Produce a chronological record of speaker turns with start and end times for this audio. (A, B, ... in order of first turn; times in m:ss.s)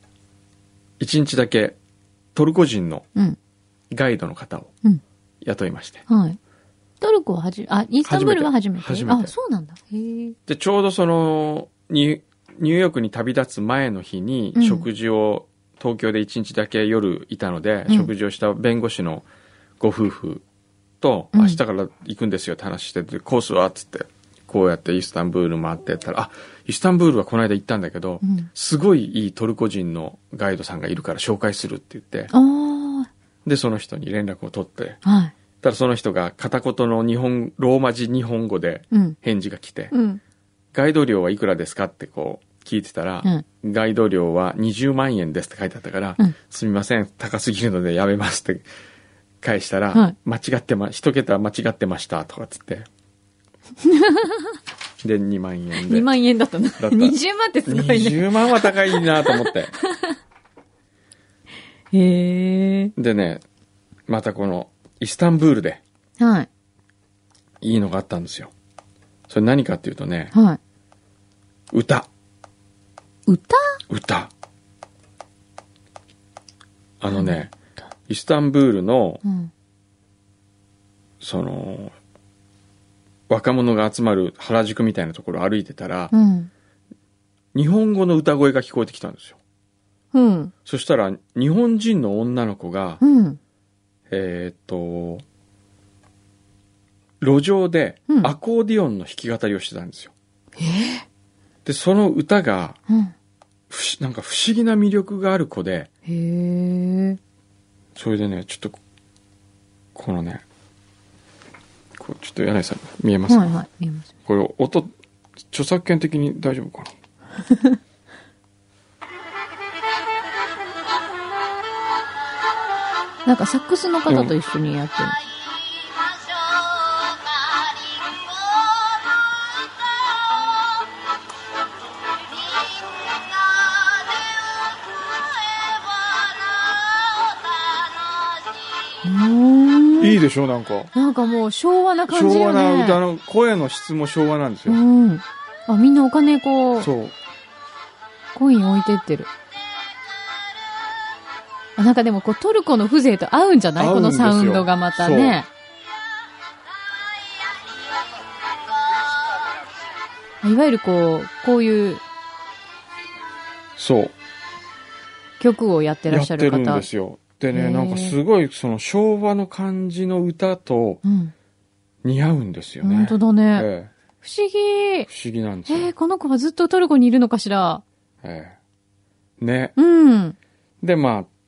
0:01.0-0:01.8 A
0:02.3-0:03.1 A
0:03.9-0:04.7 A
0:05.4-0:06.0 A
0:06.1-0:06.4 B
0:07.0-0:10.4 B
0:08.0-0:09.3 A
0:10.5-0:19.2 A
0:14.6-0:14.8 B
0:19.8-0:20.4 A
0:21.0-0:32.3 A
0:21.3-0:21.6 B
0:28.2-0:28.5 B
0:32.3-0:33.1 B
0:33.4-0:35.0 A
0:35.0-0:35.3 B
0:35.6-0:39.9 A
0:38.9-0:39.2 B
0:39.9-0:40.2 B
0:40.7-0:48.6 A
0:49.4-0:52.9 A
0:53.8-0:54.4 B
0:55.0-0:56.1 A
0:55.8-0:59.5 B
0:56.8-0:59.7 A
1:01.9-1:02.9 B
1:03.0-1:03.4 A
1:04.1-1:05.8 A
1:06.2-1:06.5 B
1:07.6-1:08.5 A
1:09.3-1:10.3 A
1:10.3-1:10.6 B
1:11.7-1:12.1 A
1:13.3-1:13.8 B
1:13.9-1:14.3 A
1:17.0-1:17.5 A
1:17.1-1:17.3 B
1:18.1-1:19.2 A
1:19.2-1:19.5 B
1:21.2-1:21.9 A
1:23.3-1:26.1 A
1:26.1-1:26.5 B
1:27.5-1:29.4 A
1:30.1-1:30.5 B
1:30.6-1:33.0 A
1:33.0-1:33.4 B
1:34.1-1:35.2 A
1:37.2-1:40.1 A
1:40.6-1:41.0 B
1:41.6-1:42.8 A
1:43.7-1:45.9 A
1:46.1-1:47.2 B
1:47.9-1:48.8 A
1:49.9-1:50.4 A
1:52.0-1:53.5 A
1:53.3-1:54.1 B
1:54.2-1:54.9 A
1:55.5-1:56.9 A
1:57.4-1:57.8 B
2:03.2-2:05.2 B
2:04.1-2:04.3 A
2:19.0-2:20.2 B
2:20.0-2:20.9 A
2:20.9-2:23.0 B
2:22.1-2:24.8 A
2:24.7-2:26.9 B
2:26.8-2:27.1 A
2:28.3-2:29.3 B
2:31.8-2:35.5 B
2:33.8-2:35.4 A
2:40.4-2:42.0 B
2:43.8-2:44.1 A
2:45.4-2:46.8 B
2:46.1-2:51.0 A
2:47.5-2:48.2 B
2:51.0-2:51.3 B
2:52.0-2:53.9 A
2:52.8-2:53.7 B
2:54.2-2:55.1 B
2:55.1-2:55.9 A
2:55.7-2:57.8 B
2:58.2-2:58.6 A
2:59.4-2:59.7 A
2:59.8-3:00.4 B
3:00.8-3:01.3 A